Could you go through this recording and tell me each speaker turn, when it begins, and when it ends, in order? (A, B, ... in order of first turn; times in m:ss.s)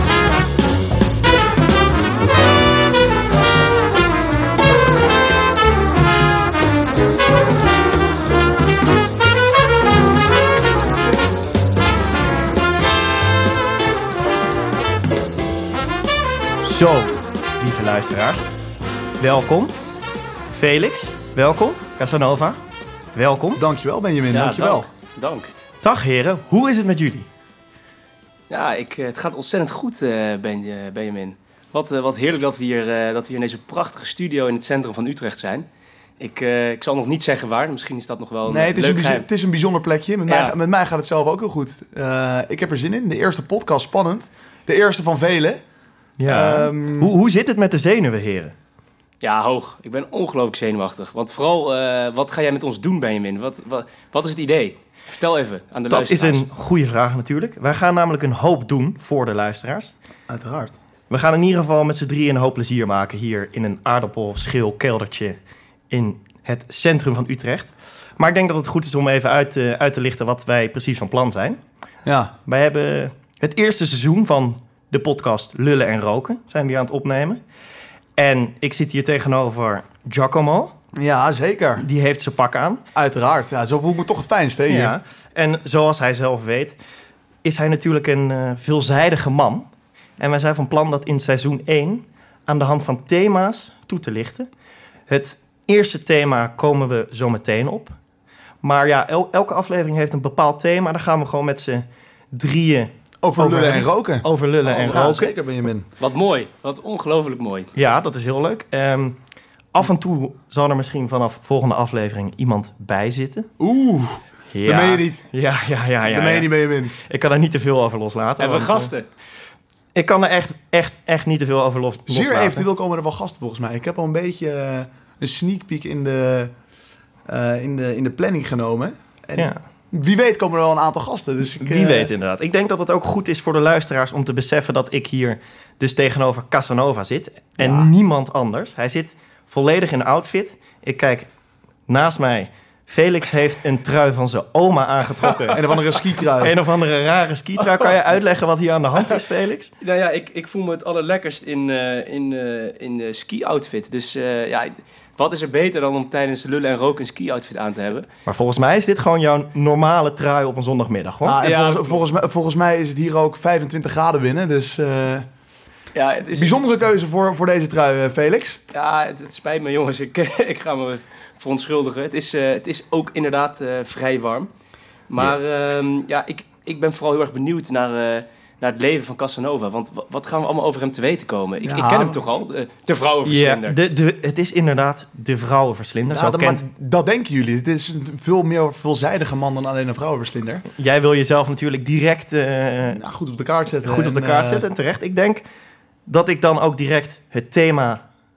0:16.6-0:18.5 A
0:19.2-0:19.7 A
0:20.5-0:22.6 A
0:23.1-0:23.6 A
0:23.6-0:24.9 B
0:24.3-0:25.5 C
0:25.8-0:27.3 A
0:28.5-0:35.6 C
0:36.2-0:39.3 C
0:38.5-0:45.6 B
0:40.3-0:40.5 C
0:46.2-0:48.5 A
0:46.3-0:47.1 B
0:49.2-0:56.4 C
0:55.9-1:00.0 A
1:00.3-1:00.8 B
1:01.1-1:05.4 A
1:05.9-1:11.6 A
1:12.0-1:12.3 B
1:12.4-1:17.4 A
1:18.2-1:20.7 A
1:21.0-1:21.8 B
1:21.8-1:22.8 A
1:22.9-1:25.0 B
1:24.7-1:26.8 A
1:27.4-1:29.6 A
1:30.2-1:34.5 A
1:35.1-1:38.0 A
1:38.6-1:45.3 A
1:43.2-1:45.9 B
1:46.0-1:47.7 C
1:47.8-1:49.2 A
1:49.7-1:53.5 A
1:53.6-1:55.3 B
1:54.5-1:58.9 A
1:56.1-1:56.9 B
1:58.4-1:59.0 C
2:00.0-2:02.7 A
2:02.1-2:06.5 B
2:07.3-2:12.1 B
2:09.4-2:09.6 A
2:11.6-2:21.3 A
2:17.6-2:17.9 B
2:21.9-2:25.6 A
2:25.5-2:26.6 B
2:26.4-2:29.7 A
2:29.8-2:38.1 C
2:38.3-2:41.4 A
2:41.2-2:45.3 B
2:41.4-2:42.0 C
2:45.9-2:46.6 C
2:46.3-2:48.6 B
2:48.7-2:54.5 C
2:55.1-3:03.8 C
3:01.6-3:02.2 B
3:03.2-3:06.6 A
3:06.1-3:10.7 B
3:10.8-3:13.0 A
3:12.9-3:14.7 B
3:13.8-3:15.4 A
3:16.1-3:18.0 A